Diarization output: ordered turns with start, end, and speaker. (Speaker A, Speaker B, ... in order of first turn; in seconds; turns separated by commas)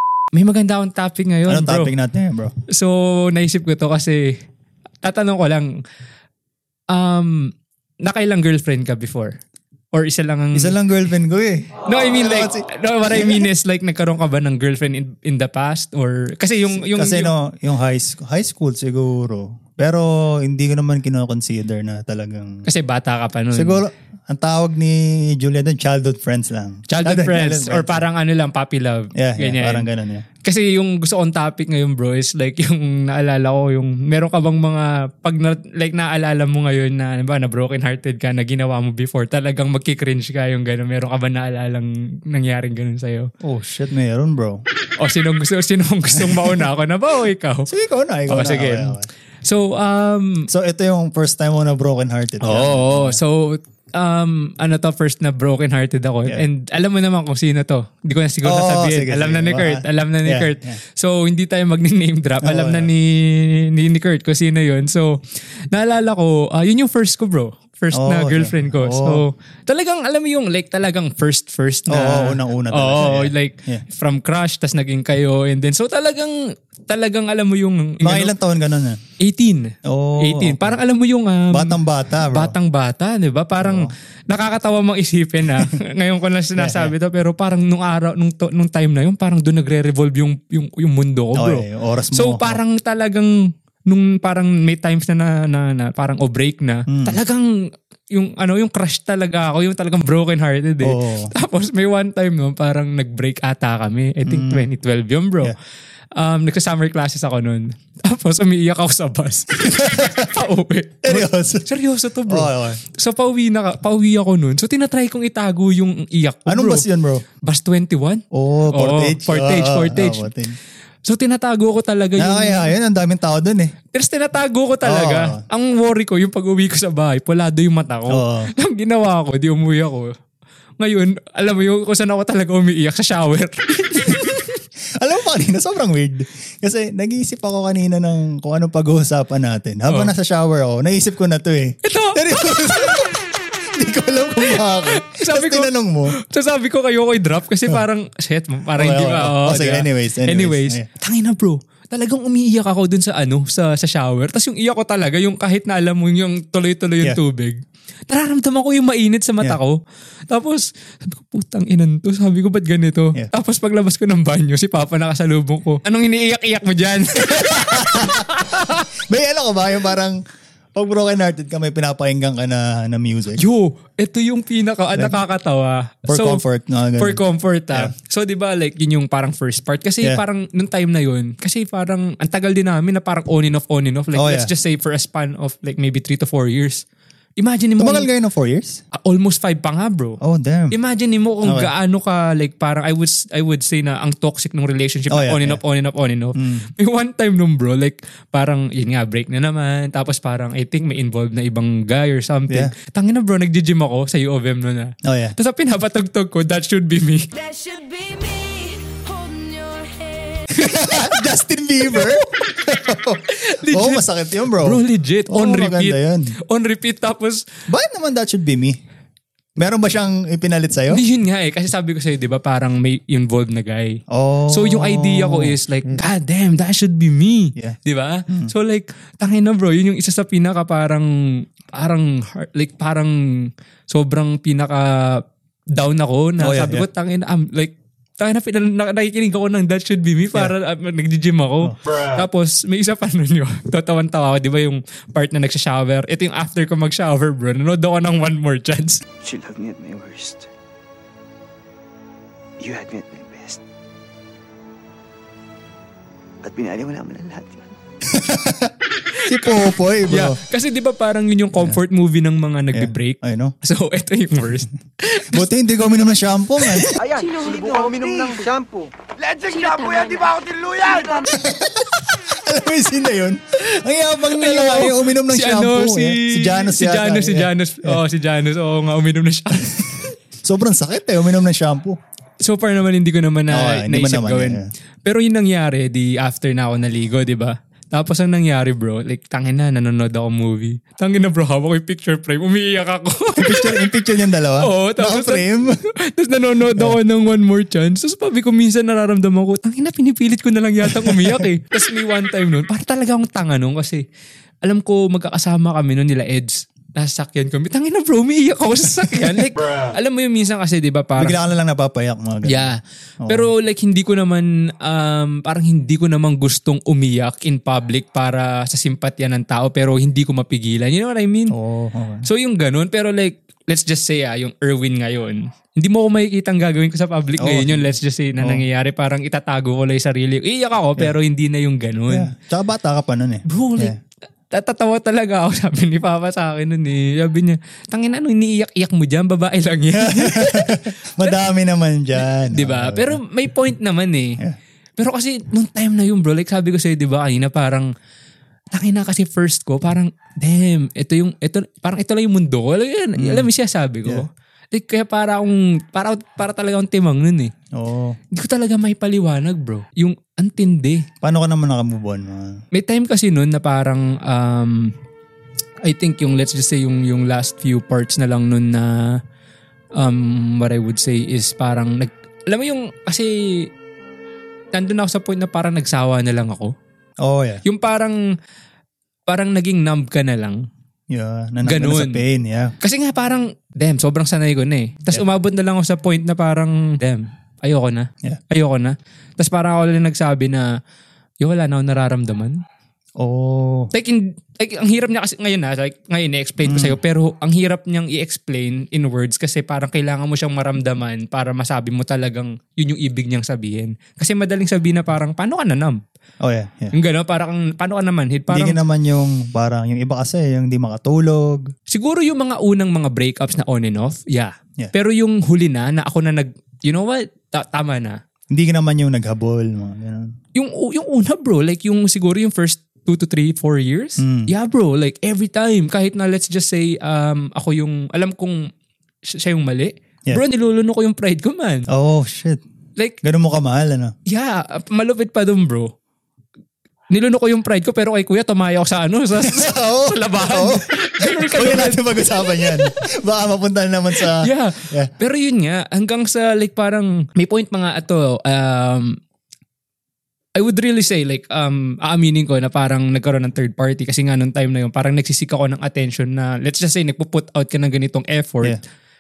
Speaker A: 0.3-1.9, Speaker B: 1.5-2.5, Speaker A: 2.7-4.4, Speaker A: 5.0-5.7, Speaker A: 6.9-7.5, Speaker A: 8.0-9.3, Speaker A: 9.9-10.7, Speaker B: 10.5-13.4, Speaker A: 11.8-17.3, Speaker B: 16.8-22.6, Speaker A: 22.7-23.8, Speaker B: 23.5-28.0, Speaker A: 26.9-29.9, Speaker B: 29.1-30.2, Speaker A: 30.4-43.3, Speaker B: 43.4-44.6, Speaker A: 45.0-47.7, Speaker B: 46.2-46.6, Speaker B: 47.7-49.1, Speaker A: 48.3-50.5, Speaker B: 50.5-53.2, Speaker A: 52.4-65.2, Speaker B: 58.4-60.8, Speaker B: 62.4-62.9, Speaker A: 65.7-76.4, Speaker B: 67.9-69.2, Speaker B: 71.9-73.8, Speaker A: 76.9-78.3, Speaker B: 78.0-79.0, Speaker A: 79.2-93.3, Speaker B: 79.8-80.8, Speaker B: 81.5-82.5, Speaker B: 83.6-83.9, Speaker B: 86.6-86.9, Speaker B: 91.3-92.6, Speaker A: 93.9-105.5, Speaker B: 96.9-97.2, Speaker B: 100.8-101.3, Speaker B: 104.2-104.7, Speaker A: 106.2-116.8, Speaker B: 109.6-110.3, Speaker B: 111.0-111.7, Speaker B: 112.3-112.8, Speaker B: 116.5-117.2, Speaker A: 117.4-120.3, Speaker B: 118.3-120.6, Speaker A: 121.0-122.7, Speaker B: 122.2-123.7, Speaker A: 123.9-130.1, Speaker B: 124.8-125.4, Speaker B: 128.1-128.5, Speaker A: 130.8-134.6, Speaker B: 135.0-143.1, Speaker A: 141.8-142.2, Speaker B: 143.7-146.2, Speaker A: 144.5-168.8, Speaker B: 148.8-150.9, Speaker B: 167.3-170.2, Speaker B: 170.7-173.4, Speaker A: 173.3-176.4, Speaker B: 176.1-177.2, Speaker A: 177.0-186.8, Speaker B: 184.1-184.5, Speaker A: 187.4-188.1, Speaker B: 187.8-188.8, Speaker A: 188.9-190.2, Speaker B: 190.2-190.7, Speaker A: 190.7-207.3, Speaker B: 191.4-191.7, Speaker B: 195.1-195.6, Speaker B: 196.4-196.7, Speaker B: 202.5-202.7, Speaker B: 205.0-205.3, Speaker C: 207.3-210.5, Speaker B: 210.6-216.3, Speaker A: 212.6-217.4, Speaker B: 217.7-218.8, Speaker B: 219.6-221.0, Speaker A: 220.9-224.0, Speaker B: 224.1-226.0, Speaker A: 224.5-249.0, Speaker B: 236.4-236.8, Speaker D: 249.2-250.5, Speaker D: 252.6-253.6, Speaker D: 256.4-257.6, Speaker B: 258.1-260.4, Speaker A: 259.3-265.4, Speaker B: 262.7-263.5, Speaker B: 265.3-266.9, Speaker D: 267.0-271.3, Speaker C: 267.1-268.5, Speaker C: 269.4-271.2, Speaker B: 271.3-278.0, Speaker A: 273.7-280.1, Speaker B: 280.4-282.0, Speaker A: 282.4-293.8, Speaker B: 283.5-284.7, Speaker B: 293.4-295.8, Speaker A: 294.6-295.4, Speaker A: 296.0-304.0, Speaker B: 300.8-301.5, Speaker A: 304.6-311.4, Speaker B: 311.2-312.7, Speaker A: 312.4-321.5, Speaker B: 313.2-313.5, Speaker B: 321.5-322.3, Speaker A: 322.2-332.3, Speaker B: 327.4-328.6, Speaker B: 332.1-333.9, Speaker A: 333.5-333.9, Speaker A: 334.5-341.3, Speaker B: 339.9-343.2, Speaker A: 342.3-344.4, Speaker A: 345.0-347.9, Speaker A: 348.7-357.5, Speaker B: 353.2-353.5, Speaker B: 357.7-358.2, Speaker A: 358.3-361.0, Speaker B: 361.2-362.6, Speaker A: 362.7-364.9, Speaker A: 365.8-369.2, Speaker A: 369.9-373.7, Speaker A: 374.7-376.7, Speaker B: 377.2-377.6, Speaker A: 377.6-378.2, Speaker A: 379.3-380.6, Speaker B: 381.1-382.7, Speaker A: 381.6-382.2, Speaker A: 382.8-390.7, Speaker A: 391.4-392.6, Speaker B: 393.2-393.9, Speaker A: 393.9-406.0, Speaker B: 396.6-397.0, Speaker B: 406.4-406.9, Speaker A: 406.9-408.8, Speaker B: 408.5-411.7, Speaker A: 411.9-418.2, Speaker B: 418.5-420.3, Speaker A: 420.5-428.7, Speaker B: 424.2-424.5, Speaker A: 429.2-431.9, Speaker B: 431.9-432.6, Speaker B: 433.2-434.1, Speaker A: 434.3-435.9, Speaker A: 437.1-442.9, Speaker B: 439.4-445.1, Speaker A: 444.2-449.2, Speaker A: 450.6-458.8